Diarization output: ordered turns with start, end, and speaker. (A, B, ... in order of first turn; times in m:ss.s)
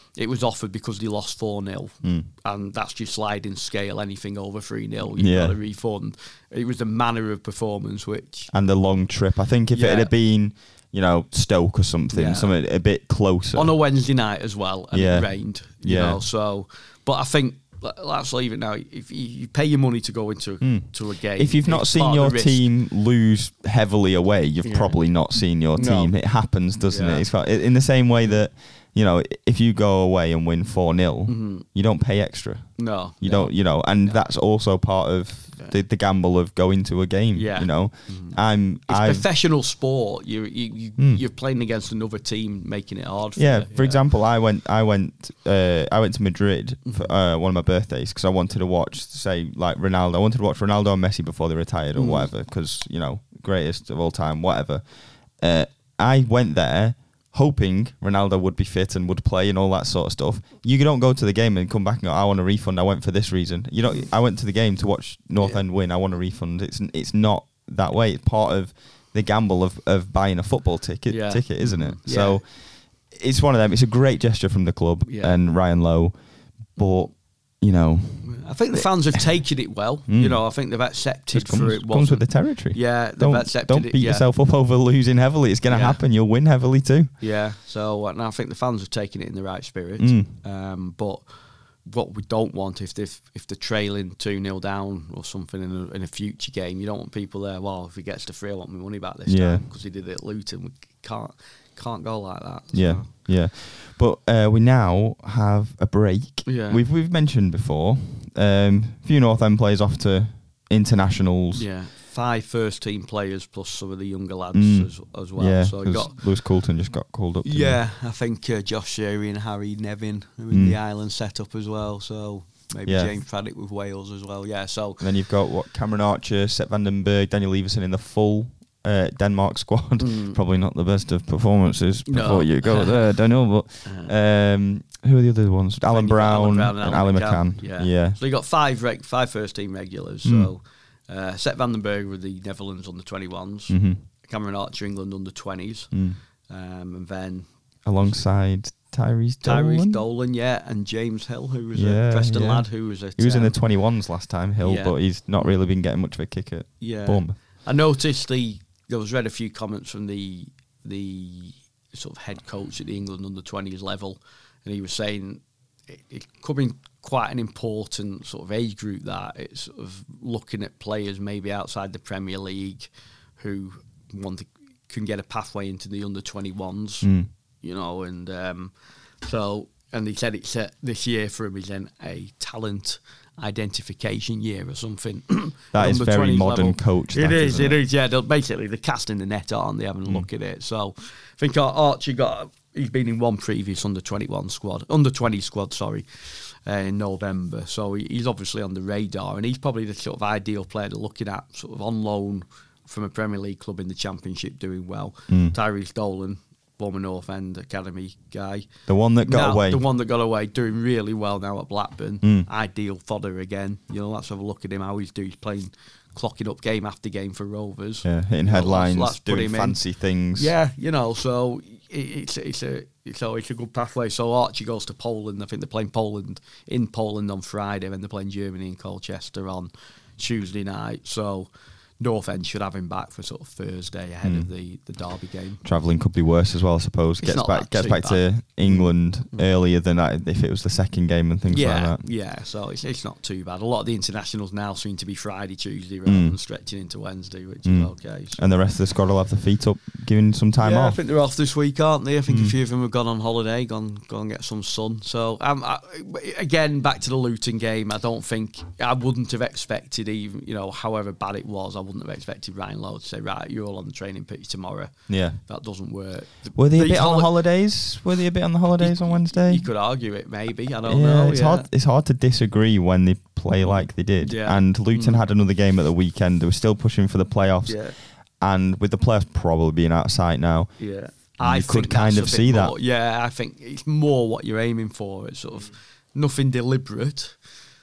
0:00.2-0:08.5 A
0:05.2-0:05.6 B
0:08.5-0:13.7 B
0:09.7-0:10.1 A
0:12.1-0:12.5 A
0:13.5-0:22.6 A
0:14.9-0:16.2 B
0:20.6-0:39.2 B
0:24.6-0:25.0 A
0:25.8-0:26.1 A
0:26.9-0:27.3 A
0:31.3-0:31.6 A
0:32.8-0:34.2 A
0:37.4-0:44.0 A
0:41.0-0:41.2 B
0:43.4-1:19.5 B
0:46.9-0:47.1 A
0:51.9-0:52.3 A
1:11.1-1:12.4 A
1:15.1-1:15.4 A
1:18.2-1:24.2 A
1:20.1-1:20.4 B
1:21.3-1:27.1 B
1:25.7-1:26.0 A
1:27.2-1:31.2 A
1:30.0-1:30.3 B
1:31.8-1:43.1 A
1:39.3-1:39.6 B
1:42.7-1:51.6 B
1:46.4-1:46.8 A
1:51.5-1:56.2 A
1:54.5-1:57.8 B
1:57.4-2:05.1 A
2:00.5-2:00.8 B
2:05.0-2:18.2 B
2:10.0-2:10.4 A
2:12.1-2:13.0 A
2:13.8-2:14.1 A
2:15.9-2:27.5 A
2:20.2-2:20.5 B
2:23.7-2:24.0 B
2:25.9-2:26.2 B
2:27.8-2:30.0 B
2:29.4-2:33.6 A
2:31.7-2:37.4 B
2:34.6-2:34.9 A
2:36.8-2:57.1 A
2:57.0-2:57.3 B
2:57.6-3:28.7 A
3:05.7-3:07.8 B
3:25.3-3:25.6 B
3:28.9-3:29.8 B
3:29.2-3:39.8 A
3:32.2-3:32.5 B
3:38.0-3:40.5 B
3:40.4-3:55.6 A
3:54.2-3:54.5 B
3:55.6-4:02.0 B
3:57.2-3:59.5 A
4:01.5-4:08.4 A
4:06.1-4:06.4 B
4:07.6-4:11.0 B
4:10.6-4:27.3 A
4:12.3-4:12.5 B
4:25.1-4:25.4 B
4:26.6-4:29.6 B
4:28.8-4:31.7 A
4:30.8-4:40.7 B
4:33.7-4:35.2 A
4:37.6-4:38.0 A
4:40.8-4:47.4 A
4:41.4-4:42.7 B